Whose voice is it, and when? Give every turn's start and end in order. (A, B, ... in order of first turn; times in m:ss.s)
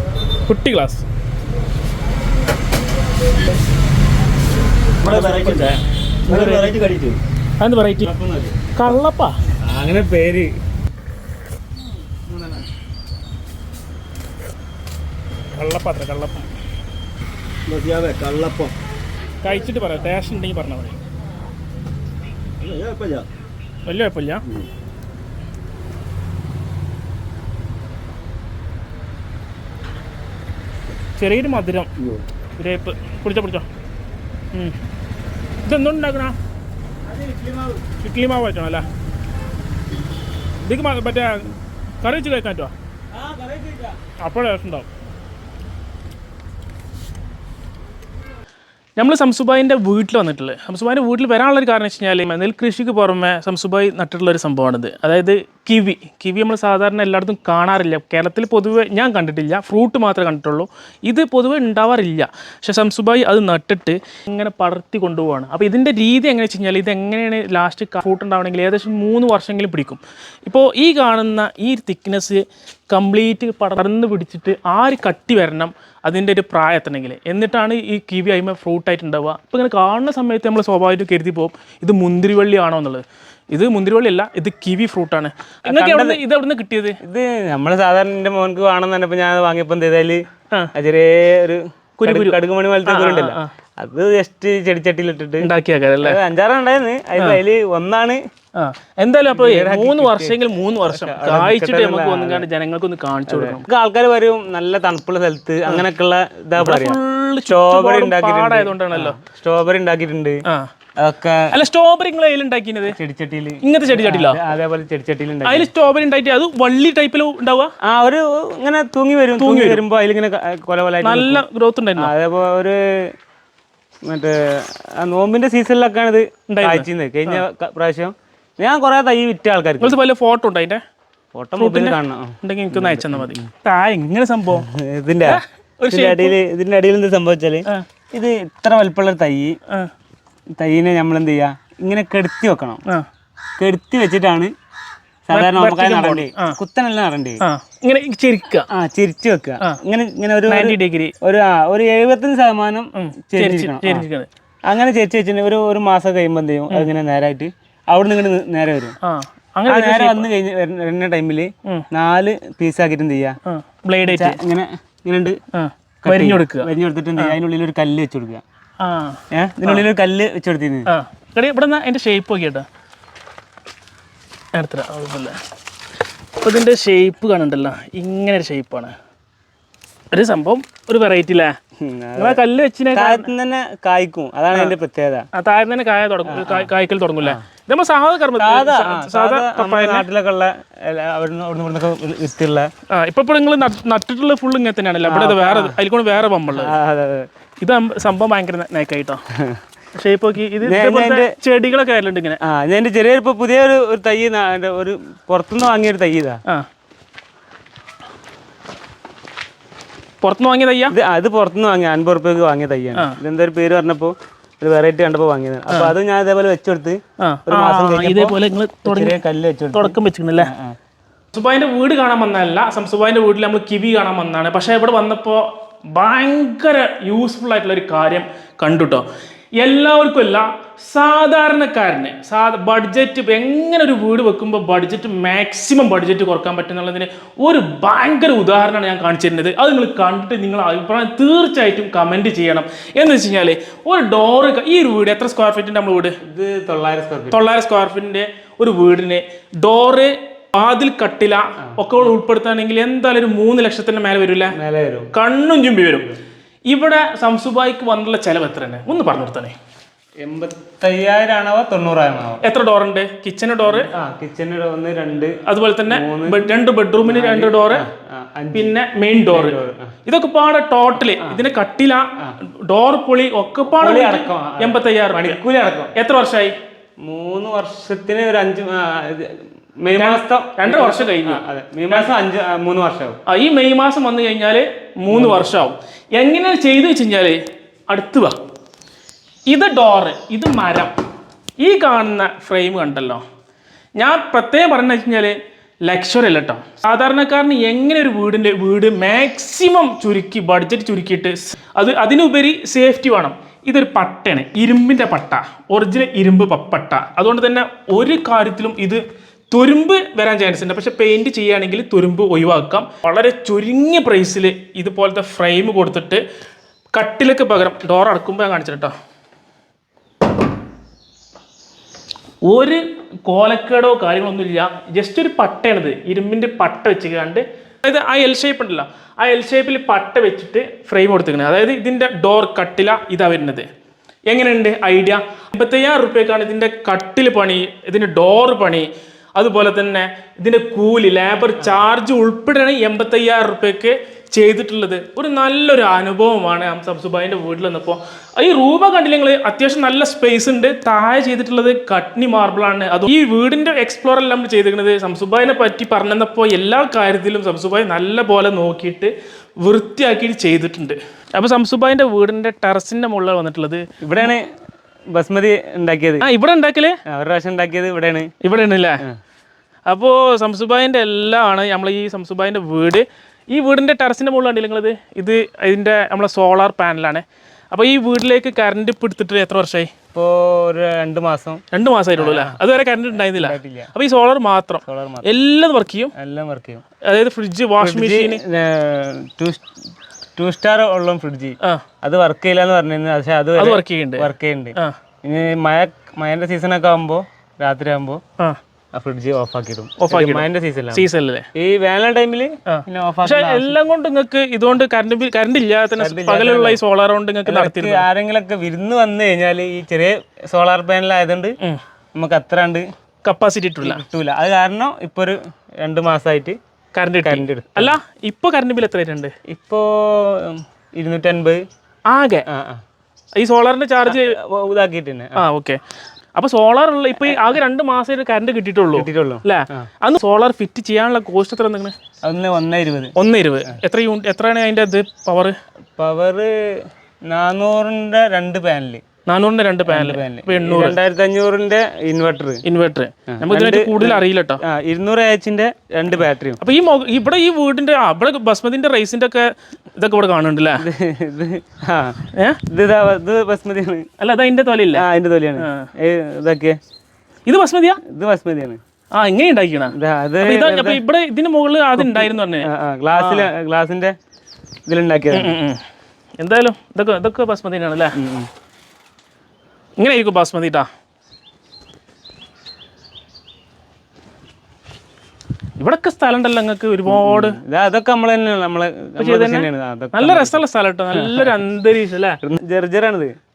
0:00.5-0:01.0 A
0:05.0-0:06.9 A
0:05.2-0:05.5 B
0:06.6-0:07.2 C
0:07.6-0:08.1 A
0:08.0-0:08.6 B
0:08.7-0:09.4 A
0:09.6-0:10.5 B
0:15.5-0:16.5 A
0:17.7-0:18.7 C
0:19.4-0:21.0 A
0:22.6-0:23.2 C
0:23.8-0:24.4 A
0:31.2-0:31.9 A
0:32.6-0:33.7 A
0:35.6-0:36.4 A
0:37.1-0:37.8 B
0:37.9-0:38.8 A
0:40.6-0:42.7 A
0:43.1-0:43.9 B
0:44.2-0:44.9 A
0:49.0-1:27.0 A
1:25.7-1:26.2 B
1:27.0-1:35.5 B
1:32.0-1:33.5 A
1:35.4-1:36.2 A
1:36.0-1:38.2 B
1:38.6-1:43.6 A
1:39.3-1:42.4 B
1:43.3-1:50.4 B
1:46.6-1:49.2 A
1:51.0-1:51.6 B
1:51.5-1:53.0 A
1:52.9-1:55.7 B
1:53.6-1:54.4 A
1:55.4-1:57.7 A
1:57.8-2:01.4 B
1:59.3-1:59.8 A
2:01.0-2:02.1 A
2:02.0-2:03.1 B
2:04.0-2:10.0 B
2:06.5-2:07.4 A
2:09.8-2:10.8 A
2:11.3-2:13.4 B
2:11.6-2:14.7 A
2:14.5-2:19.6 B
2:15.2-2:16.4 A
2:20.6-2:22.8 B
2:23.6-2:24.5 B
2:25.3-2:27.4 B
2:25.3-2:26.6 A
2:27.4-2:28.7 A
2:28.7-2:34.1 B
2:30.5-2:31.1 A
2:32.9-2:34.3 A
2:34.6-2:39.0 B
2:39.0-2:40.3 A
2:39.7-2:43.4 B
2:43.4-2:44.4 A
2:44.1-2:45.4 B
2:45.5-2:47.4 A
2:46.0-2:48.4 B
2:48.8-2:49.8 A
2:49.3-2:50.9 B
2:50.9-2:52.6 A
2:54.5-2:55.4 A
2:56.4-2:58.9 A
3:00.1-3:01.5 A
3:01.8-3:02.4 B
3:02.2-3:03.3 A
3:02.9-3:05.3 B
3:05.3-3:10.1 A
3:06.2-3:06.7 B
3:08.4-3:12.7 B
3:12.9-3:16.7 A
3:15.0-3:15.8 B
3:16.4-3:17.3 B
3:17.6-3:19.2 A
3:19.3-3:19.6 B
3:19.9-3:22.4 A
3:20.6-3:21.3 B
3:22.4-3:26.4 B
3:30.2-3:30.9 A
3:30.9-3:40.8 B
3:37.2-3:39.2 A
3:39.7-3:40.5 A
3:41.3-3:49.0 A
3:49.6-4:06.2 A
4:06.2-4:07.4 B
4:07.3-4:14.6 A
4:11.7-4:12.1 B
4:14.5-4:15.1 B
4:15.1-4:16.1 A
4:16.7-4:19.5 A
4:20.2-4:22.4 B
4:22.4-4:23.9 A
4:23.7-4:26.5 B
4:25.4-4:27.8 A
4:27.0-4:28.8 B
4:28.5-4:35.4 A
4:29.3-4:29.9 B
4:31.0-4:31.4 B
4:33.7-4:35.9 B
4:35.9-4:36.5 A
4:37.0-4:43.2 B
4:39.9-4:42.1 A
4:43.3-4:48.4 A
4:45.1-4:45.6 B
4:49.5-4:50.9 A
4:51.6-4:53.2 A
4:54.0-5:16.2 A
5:16.9-5:18.9 A
5:22.4-5:33.7 A
5:34.3-6:03.8 A
5:41.6-5:41.8 B
6:04.0-6:04.5 B
6:05.1-6:06.2 B
6:06.2-6:07.0 A
6:07.1-6:08.3 B
6:08.4-6:09.0 A
6:09.9-6:19.9 A
6:20.1-6:21.6 B
6:21.7-6:26.1 A
6:22.2-6:22.6 B
6:23.2-6:23.9 B
6:24.8-6:25.3 B
6:26.2-6:26.8 B
6:27.1-6:28.4 A
6:27.8-6:29.7 B
6:30.4-6:38.2 B
6:33.6-6:34.9 A
6:38.9-6:43.8 B
6:40.0-6:41.5 A
6:42.7-6:48.1 A
6:46.0-6:46.8 B
6:47.4-6:51.6 B
6:52.1-6:52.9 B
6:53.2-6:54.0 A
6:53.8-6:56.6 B
6:56.9-6:59.3 A
6:57.2-6:58.0 B
6:59.5-7:01.6 B
7:02.1-7:02.4 A
7:02.5-7:02.8 B
7:03.4-7:04.4 A
7:04.0-7:05.4 B
7:05.4-7:05.8 A
7:06.3-7:11.9 A
7:07.2-7:07.5 B
7:08.9-7:09.9 B
7:12.2-7:13.1 B
7:13.2-7:15.5 A
7:16.0-7:19.0 B
7:19.2-7:21.0 A
7:19.8-7:22.6 B
7:22.6-7:24.6 A
7:23.3-7:26.6 B
7:26.6-7:30.8 A
7:30.8-7:34.1 B
7:32.3-7:32.6 A
7:34.2-7:35.0 A
7:34.9-7:36.8 B
7:35.6-7:35.9 A
7:37.4-7:38.0 A
7:38.0-7:38.8 B
7:39.1-7:43.5 A
7:39.9-7:41.0 B
7:42.0-7:44.2 B
7:44.8-7:45.5 B
7:45.3-7:45.8 A
7:46.4-7:48.2 A
7:48.2-7:48.5 B
7:50.0-7:50.9 A
7:55.8-7:57.6 A
7:57.1-8:01.6 B
7:59.2-8:02.4 A
8:02.4-8:03.4 B